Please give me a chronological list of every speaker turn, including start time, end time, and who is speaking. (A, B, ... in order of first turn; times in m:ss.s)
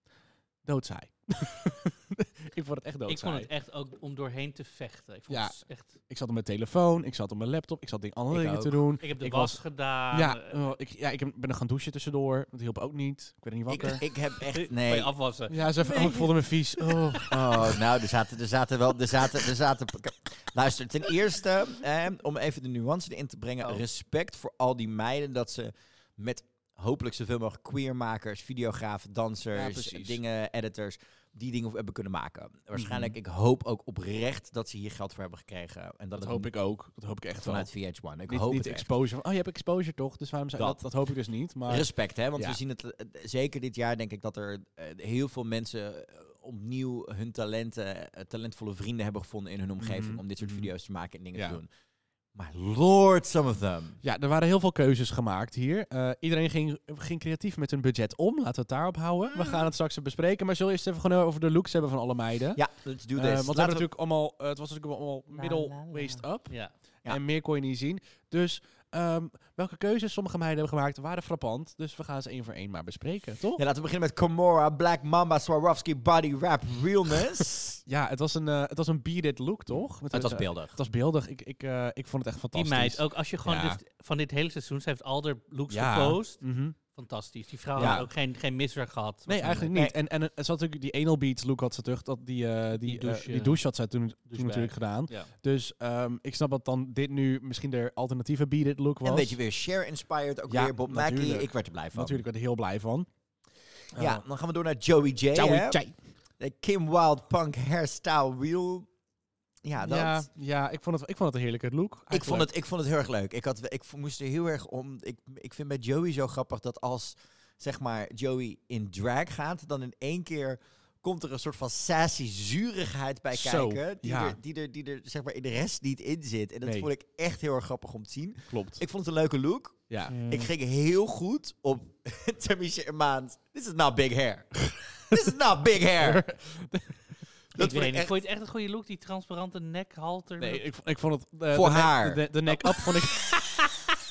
0:00.6-0:03.5 A
0:03.1-0:06.0 B
0:05.3-0:14.0 A
0:08.3-0:08.8 C
0:09.0-0:10.5 B
0:13.7-0:15.1 C
0:14.4-0:17.2 B
0:15.5-0:17.8 A
0:17.2-0:36.5 C
0:29.5-0:30.2 A
0:32.7-0:33.2 A
0:36.2-0:37.7 A
0:37.4-0:38.9 C
0:38.3-0:42.6 A
0:41.7-0:51.7 C
0:49.8-0:50.7 A
0:52.3-0:54.0 C
0:54.0-1:02.6 A
1:02.6-1:03.9 C
1:03.1-1:13.6 A
1:05.3-1:06.7 B
1:13.6-1:17.8 C
1:17.8-1:23.8 A
1:20.1-1:20.8 C
1:22.5-1:29.7 B
1:25.7-1:26.8 A
1:27.8-1:28.1 A
1:27.8-1:28.0 C
1:29.3-1:39.4 A
1:32.8-1:33.6 B
1:34.3-1:35.3 B
1:39.0-1:42.2 C
1:40.5-1:43.1 A
1:43.9-1:44.2 A
1:44.0-1:45.8 C
1:45.3-1:46.0 A
1:46.4-1:48.9 C
1:49.6-1:50.3 C
1:49.8-1:52.5 A
1:52.1-2:16.2 C
2:03.3-2:04.4 A
2:06.6-2:06.9 A
2:08.5-2:08.8 A
2:09.9-2:10.1 A
2:10.1-2:10.5 B
2:16.0-2:17.1 A
2:17.5-2:18.1 C
2:17.6-2:20.6 B
2:20.4-2:23.7 A
2:21.5-2:22.2 C
2:22.6-2:23.0 B